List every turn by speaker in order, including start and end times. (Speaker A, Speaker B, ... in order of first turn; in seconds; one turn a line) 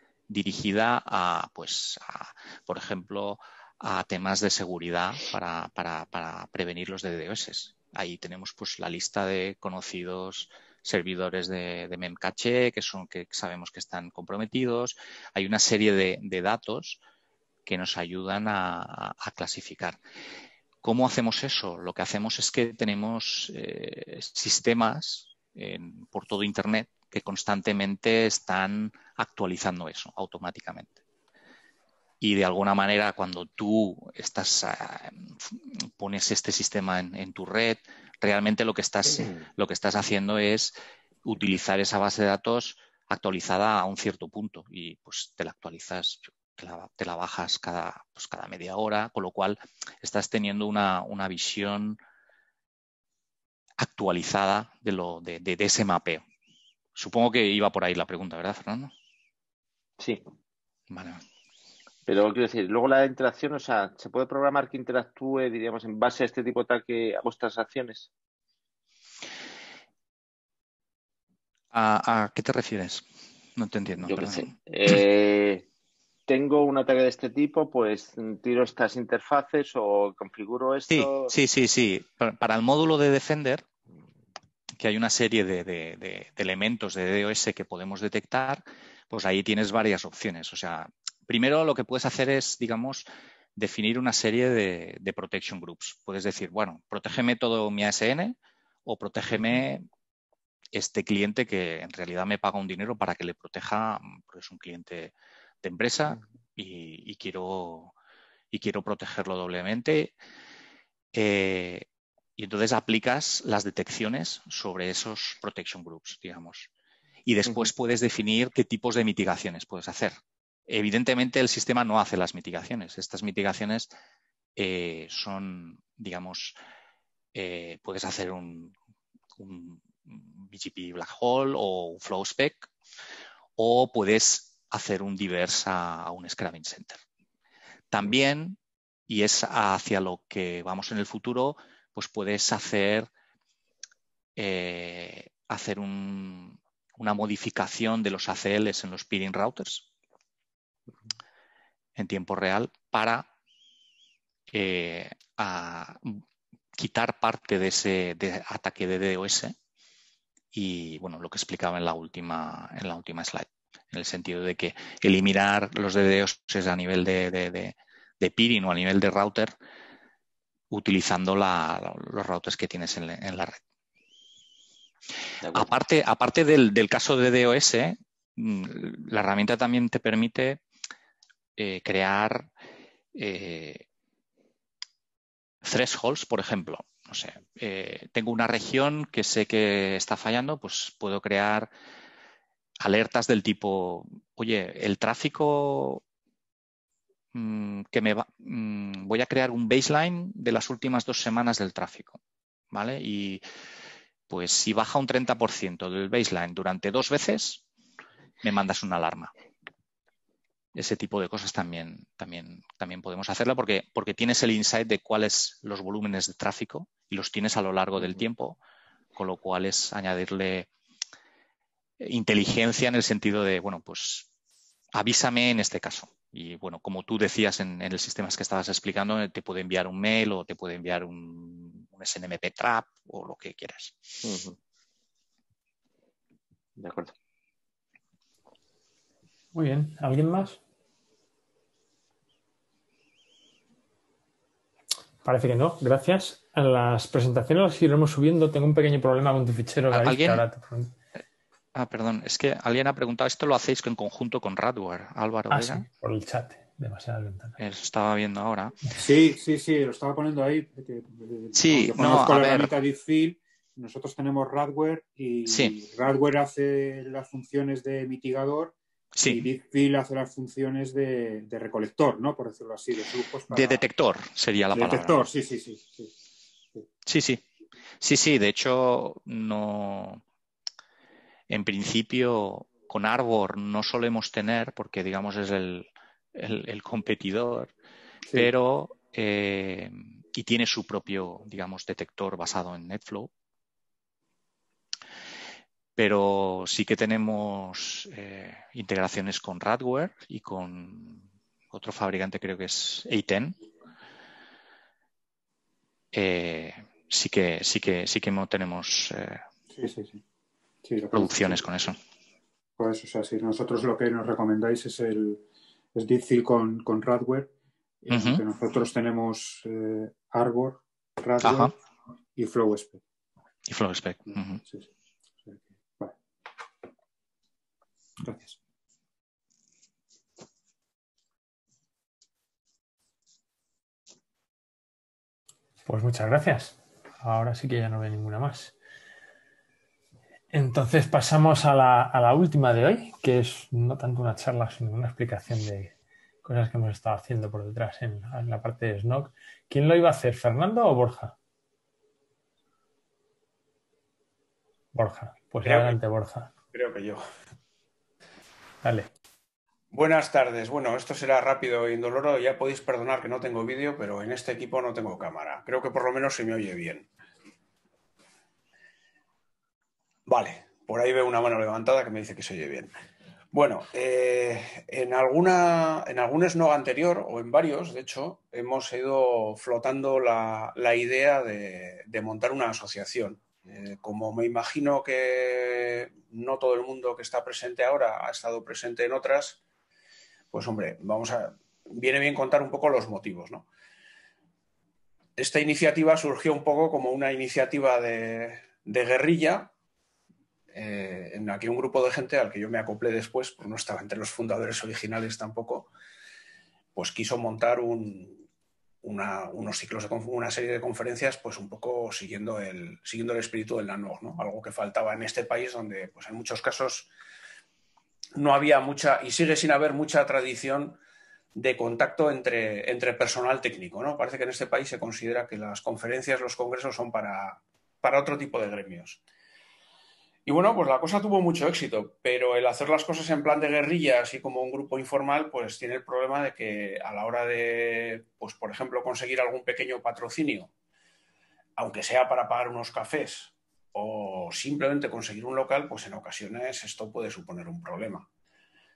Speaker A: 0.3-17.0
Speaker A: 17.7-20.0
Speaker A: 20.8-31.0
Speaker A: 32.2-52.0
Speaker A: 53.8-56.2
Speaker A: 57.0-58.9
Speaker A: 60.9-61.2
Speaker B: 62.1-68.1
Speaker A: 71.7-74.5
Speaker B: 74.0-75.7
Speaker B: 76.3-81.3
Speaker A: 80.9-83.7
Speaker A: 84.8-99.9
Speaker A: 100.7-107.9
Speaker A: 108.5-110.2
Speaker A: 111.1-111.9
Speaker A: 112.4-116.7
Speaker A: 117.3-120.2
Speaker A: 120.7-123.9
Speaker A: 124.6-126.6
Speaker A: 127.3-128.7
Speaker A: 129.4-132.7
Speaker A: 133.6-137.0
Speaker A: 137.9-143.1
Speaker A: 144.4-149.9
Speaker A: 152.0-153.3
Speaker A: 154.5-156.2
Speaker A: 156.8-159.6
Speaker A: 160.5-169.5
Speaker A: 170.7-173.6
Speaker B: 175.4-175.7
Speaker A: 175.5-180.6
Speaker A: 181.6-182.5
Speaker A: 183.2-183.8
Speaker A: 185.6-191.7
Speaker A: 192.8-196.0
Speaker A: 197.3-202.2
Speaker A: 202.7-203.4
Speaker A: 204.3-207.6
Speaker A: 208.4-209.3
Speaker A: 210.7-218.6
Speaker A: 219.2-220.7
Speaker A: 222.0-224.3
Speaker A: 224.9-234.2
Speaker B: 234.2-234.6
Speaker B: 236.8-237.1
Speaker C: 239.5-240.6
Speaker C: 245.2-250.9
Speaker A: 249.9-250.4
Speaker A: 251.8-255.9
Speaker C: 255.5-257.6
Speaker A: 257.6-258.8
Speaker D: 258.9-273.9
Speaker A: 261.5-262.7
Speaker A: 265.5-265.8
Speaker A: 269.1-269.5
Speaker A: 273.5-275.3
Speaker D: 274.7-276.1
Speaker A: 277.1-277.4
Speaker A: 278.0-280.2
Speaker A: 281.5-287.7
Speaker A: 288.3-293.3
Speaker A: 296.0-303.6
Speaker A: 306.1-309.4
Speaker D: 309.7-310.2
Speaker D: 310.8-311.7
Speaker A: 311.1-312.0
Speaker D: 312.8-315.4
Speaker D: 315.9-317.5
Speaker D: 318.0-321.7
Speaker A: 318.1-318.4
Speaker A: 321.4-321.7
Speaker D: 322.4-323.0
Speaker A: 323.7-324.6
Speaker D: 324.3-324.9
Speaker D: 325.4-326.2
Speaker D: 328.2-328.6
Speaker C: 335.9-338.8
Speaker C: 340.5-345.9
Speaker C: 346.4-351.4
Speaker C: 354.9-356.5
Speaker E: 355.6-356.0
Speaker E: 356.7-357.2
Speaker C: 358.8-359.1
Speaker E: 359.9-367.1
Speaker E: 370.3-372.9
Speaker E: 373.5-389.6
Speaker E: 390.5-393.7
Speaker E: 395.4-399.7
Speaker E: 400.7-405.9
Speaker E: 406.9-408.4
Speaker E: 409.0-417.1
Speaker E: 418.4-421.0
Speaker E: 421.6-429.2
Speaker E: 430.5-440.7
Speaker E: 441.8-448.3